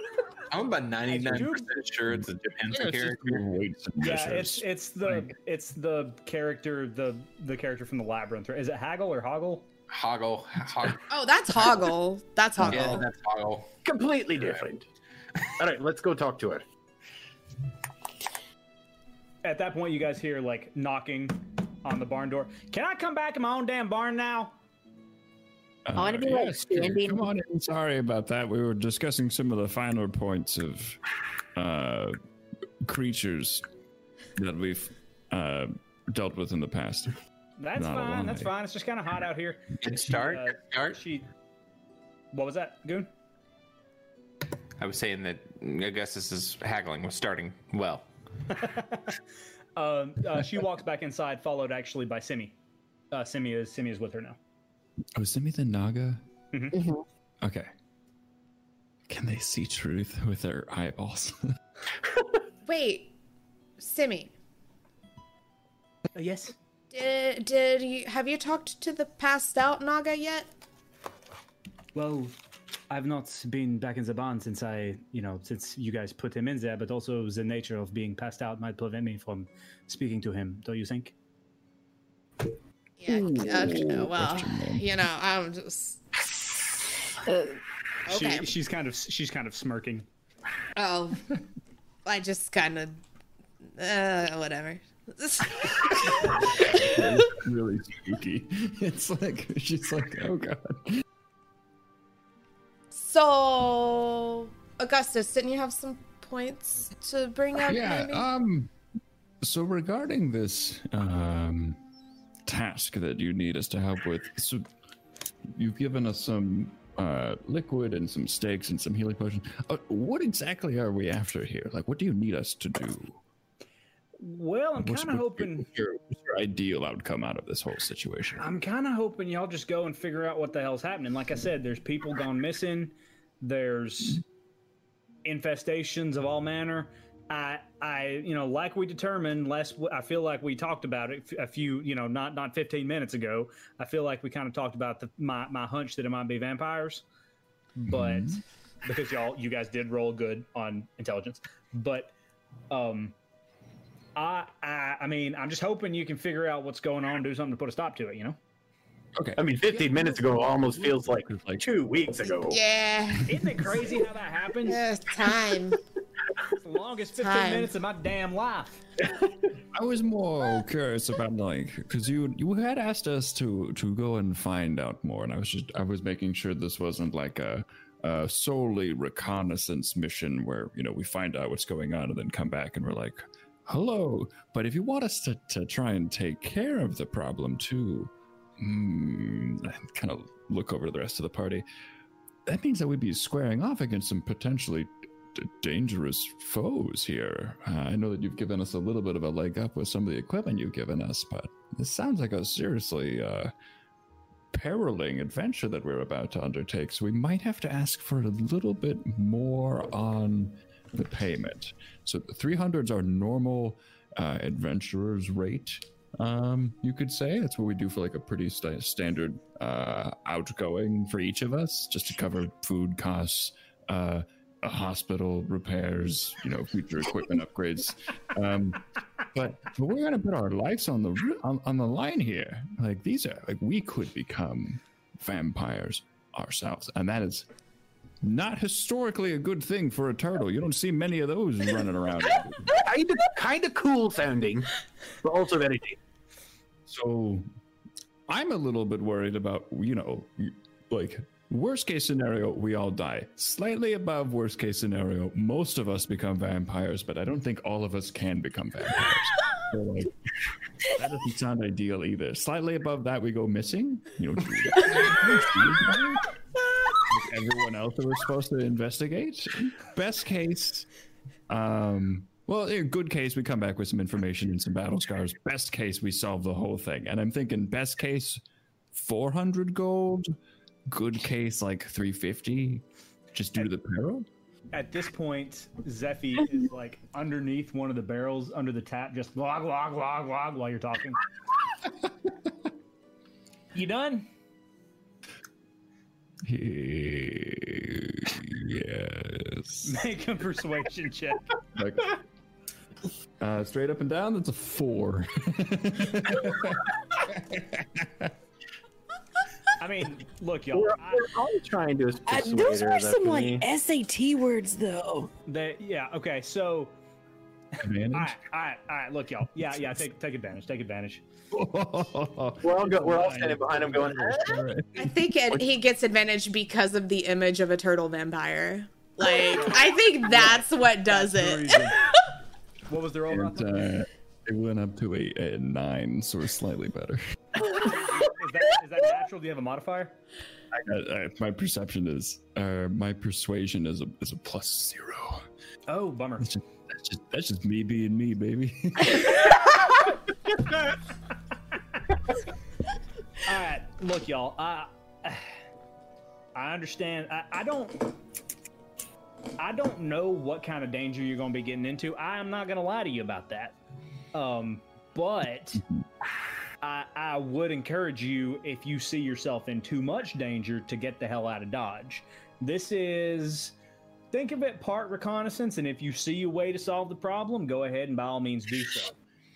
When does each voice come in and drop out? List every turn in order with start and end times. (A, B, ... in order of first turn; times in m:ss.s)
0:00.5-0:03.5 A
0:01.1-0:01.7 B
0:02.1-0:05.3 C
0:04.0-0:09.7 B
0:09.9-0:11.0 A
0:11.1-0:13.0 D
0:12.6-0:13.7 A
0:13.8-0:14.8 E
0:15.6-0:16.6 E
0:19.4-0:24.5 B
0:25.8-0:31.0 C
0:26.0-0:27.3 F
0:31.6-0:32.2 C
0:32.8-0:33.6 C
0:34.4-0:37.1 C
0:37.6-0:41.2 B
0:37.8-0:38.5 C
0:39.8-0:41.0 A
0:42.3-0:43.1 B
0:44.8-0:48.1 A
0:48.6-0:49.2 B
0:49.8-0:52.5 B
0:53.1-0:54.4 B
0:55.1-0:56.2 C
0:56.7-0:57.0 F
0:57.4-0:57.7 C
0:59.1-1:01.4 C
1:02.6-1:03.1 D
1:03.8-1:04.3 D
1:06.1-1:06.5 B
1:06.9-1:10.5 D
1:11.9-1:12.3 B
1:12.9-1:21.1 B
1:23.0-1:26.0 D
1:23.2-1:24.9 C
1:27.2-1:27.6 F
1:28.1-1:28.4 D
1:28.1-1:30.0 B
1:30.8-1:31.2 D
1:32.0-1:33.0 D
1:33.8-1:37.1 D
1:36.1-1:41.0 C
1:42.9-1:48.3 D
1:47.6-1:48.7 C
1:49.4-1:51.8 C
1:52.4-1:54.6 C
1:55.5-2:03.2 C
2:04.2-2:05.6 B
2:04.8-2:08.5 C
2:08.4-2:14.2 B
2:15.2-2:27.0 B
2:27.8-2:32.1 B
2:27.9-2:28.4 C
2:32.7-2:33.1 B
2:34.2-2:38.4 B
2:39.2-2:41.6 C
2:39.4-2:42.6 E
2:42.5-2:43.3 D
2:43.3-2:44.8 B
2:44.6-2:45.8 D
2:46.6-2:48.8 B
2:47.2-2:47.7 D
2:49.7-3:11.6 C
3:12.4-3:23.5 C
3:24.5-3:57.4 C
3:58.2-4:02.8 C
4:02.8-4:04.7 E
4:05.2-4:06.0 E
4:06.9-4:07.4 C
4:08.3-4:20.1 C
4:20.8-4:26.3 C
4:27.0-4:30.9 C
4:31.5-4:38.4 C
4:38.9-4:40.3 C
4:40.9-4:42.8 C
4:43.3-4:44.3 C
4:44.7-4:51.2 B
4:53.7-4:54.3 B
4:56.4-4:59.9 C
4:59.8-5:01.4 B
5:01.8-5:02.2 C
5:03.4-5:08.3 C
5:09.8-5:11.3 B
5:10.7-5:13.6 E
5:12.2-5:15.3 F
5:15.4-5:16.9 B
5:17.8-5:18.4 C
5:18.1-5:21.2 B
5:21.5-5:25.6 C
5:22.6-5:24.6 E
5:22.9-5:23.9 B
5:25.0-5:31.8 D
5:29.6-5:32.0 B
5:32.9-5:33.8 B
5:33.3-5:37.3 C
5:37.7-5:40.2 B
5:40.7-5:45.4 C
5:45.9-5:46.5 B
5:46.4-5:49.7 C
5:53.4-5:55.5 B
5:56.5-5:58.1 B
5:59.6-6:03.7 B
6:04.3-6:05.8 B
6:06.8-6:13.7 B
6:14.3-6:19.1 B